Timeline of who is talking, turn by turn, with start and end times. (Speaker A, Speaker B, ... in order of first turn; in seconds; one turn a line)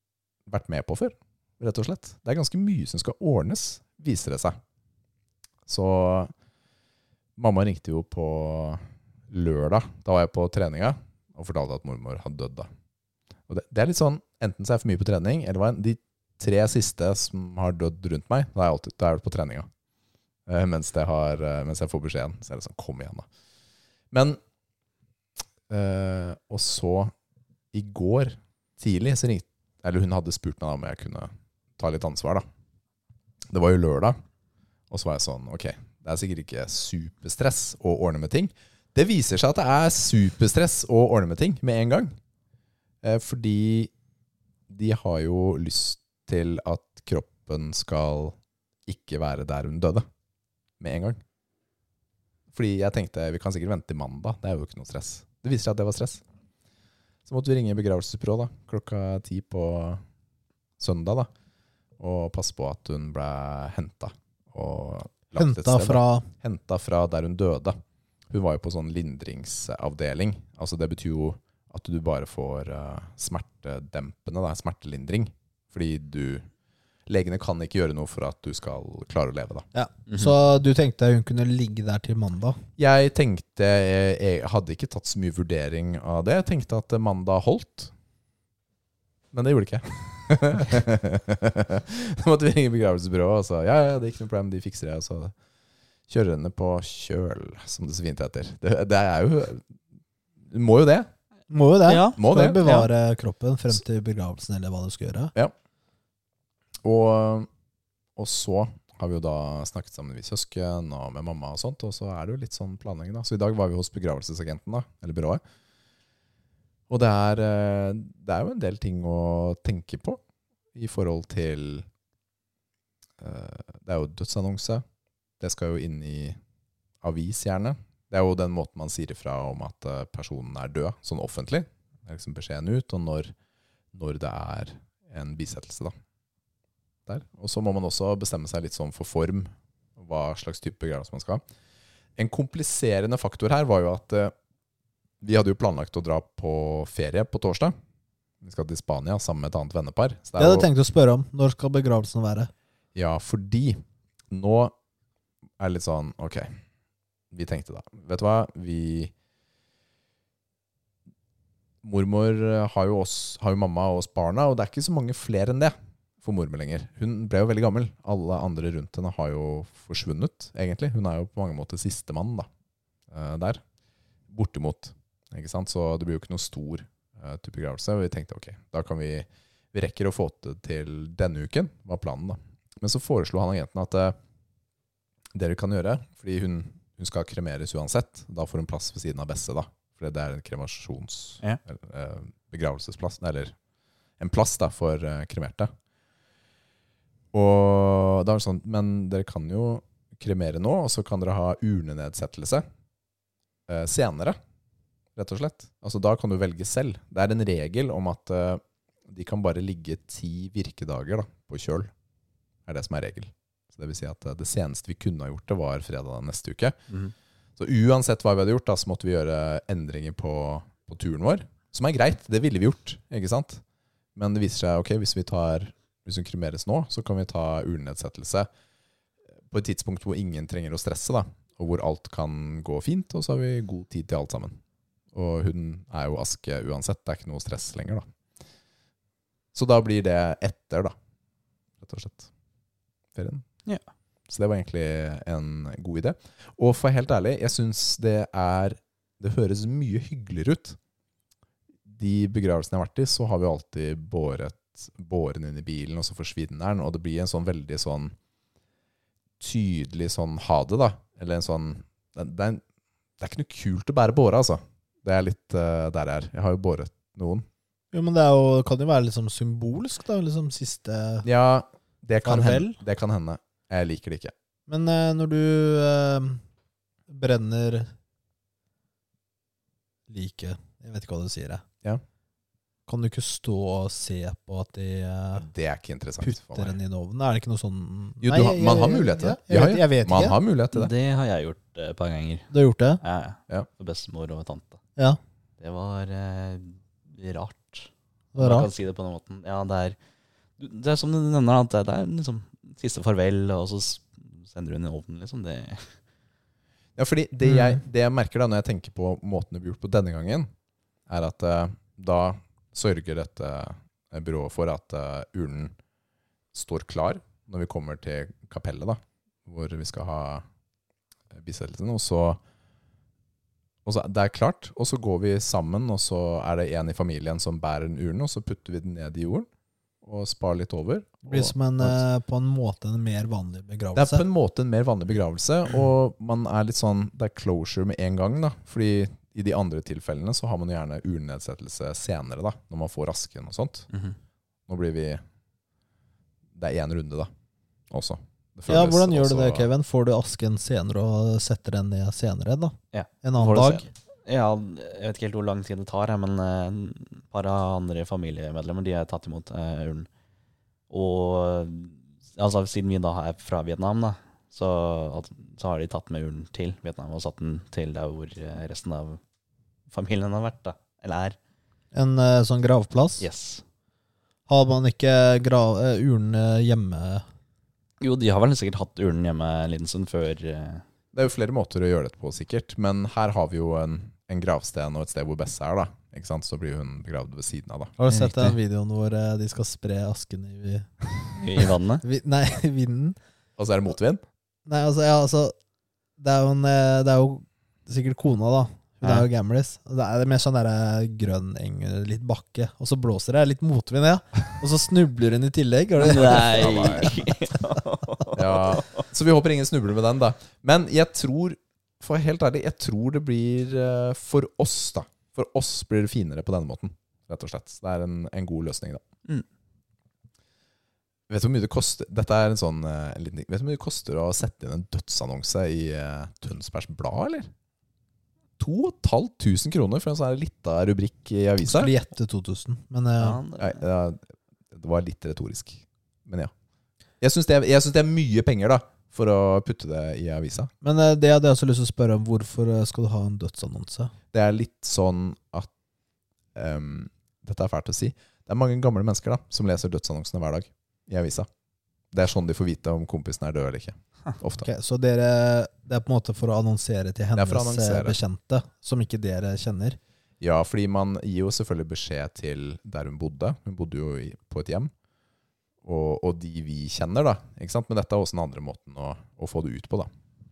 Speaker A: 0.5-4.6
Speaker A: 5.7-6.3
Speaker A: 7.4-12.7
Speaker A: 13.5-19.7
Speaker A: 20.5-23.2
Speaker A: 24.1-24.4
Speaker A: 25.7-27.1
Speaker A: 27.7-32.4
Speaker A: 33.5-34.2
Speaker A: 34.9-42.1
Speaker A: 43.0-43.9
Speaker A: 44.7-50.0
Speaker A: 50.8-51.2
Speaker A: 52.5-56.2
Speaker A: 57.2-60.0
Speaker A: 60.8-61.3
Speaker A: 62.0-67.8
Speaker B: 65.3-66.3
Speaker A: 68.3-76.5
Speaker A: 77.1-79.6
Speaker B: 79.7-82.6
Speaker A: 82.8-87.9
Speaker A: 89.3-95.3
Speaker A: 96.1-99.6
Speaker A: 100.5-101.1
Speaker B: 101.5-105.3
Speaker C: 101.9-102.2
Speaker A: 102.1-102.8
Speaker A: 106.8-107.5
Speaker A: 108.2-115.4
Speaker A: 116.9-120.2
Speaker A: 120.7-121.9
Speaker A: 123.2-124.8
Speaker A: 125.4-126.4
Speaker A: 127.0-133.3
Speaker A: 133.9-135.9
Speaker A: 137.1-141.4
Speaker A: 142.2-144.3
Speaker A: 145.2-147.7
Speaker A: 148.4-150.7
Speaker B: 150.4-152.5
Speaker A: 152.9-154.7
Speaker A: 155.6-156.6
Speaker A: 157.3-159.1
Speaker A: 161.8-172.5
Speaker A: 173.1-173.6
Speaker A: 174.3-184.2
Speaker A: 185.3-193.5
Speaker A: 194.2-195.7
Speaker A: 197.3-202.6
Speaker A: 203.7-204.4
Speaker A: 205.2-211.9
Speaker A: 212.7-216.8
Speaker A: 217.6-223.6
Speaker A: 224.2-228.5
Speaker A: 229.5-234.6
Speaker A: 235.1-238.0
Speaker A: 239.5-240.9
Speaker A: 241.8-242.3
Speaker A: 243.1-243.4
Speaker A: 244.3-250.8
Speaker A: 251.9-258.1
Speaker A: 259.4-262.6
Speaker A: 263.2-267.4
Speaker B: 267.9-271.2
Speaker A: 271.2-274.3
Speaker B: 272.2-272.8
Speaker B: 274.7-276.4
Speaker B: 277.1-277.9
Speaker B: 280.1-281.6
Speaker B: 282.9-285.5
Speaker A: 285.4-286.8
Speaker B: 286.2-290.4
Speaker A: 288.2-290.9
Speaker C: 290.7-292.5
Speaker B: 292.5-293.0
Speaker C: 293.0-294.8
Speaker C: 295.6-300.0
Speaker B: 298.3-298.7
Speaker C: 300.6-305.9
Speaker A: 307.0-310.5
Speaker B: 307.5-307.8
Speaker A: 311.1-315.7
Speaker A: 316.5-320.4
Speaker A: 321.3-322.4
Speaker A: 323.8-329.5
Speaker A: 330.0-332.0
Speaker B: 331.3-334.2
Speaker A: 333.9-343.9
Speaker A: 344.7-345.2
Speaker A: 346.6-347.3
Speaker A: 347.9-349.7
Speaker B: 348.7-353.8
Speaker C: 352.9-360.1
Speaker C: 360.9-369.2
Speaker C: 369.9-371.4
Speaker B: 371.9-373.2
Speaker C: 373.2-373.6
Speaker B: 374.5-377.2
Speaker C: 378.0-380.8
Speaker A: 381.1-387.9
Speaker B: 388.0-390.9
Speaker C: 388.1-388.5
Speaker C: 391.4-392.0
Speaker B: 391.5-393.2
Speaker A: 393.6-394.2
Speaker B: 394.6-395.5
Speaker B: 396.2-406.8
Speaker C: 406.0-409.0
Speaker A: 406.4-407.1
Speaker A: 408.3-419.0
Speaker A: 421.3-427.5
Speaker A: 428.6-431.9
Speaker B: 431.6-433.4
Speaker C: 433.2-433.8
Speaker A: 433.6-436.5
Speaker A: 437.2-440.7
Speaker B: 440.8-444.1
Speaker A: 444.3-445.7
Speaker A: 446.5-451.5
Speaker A: 452.1-454.7
Speaker B: 454.6-460.0
Speaker A: 457.3-458.2
Speaker A: 460.4-464.9
Speaker A: 465.8-470.1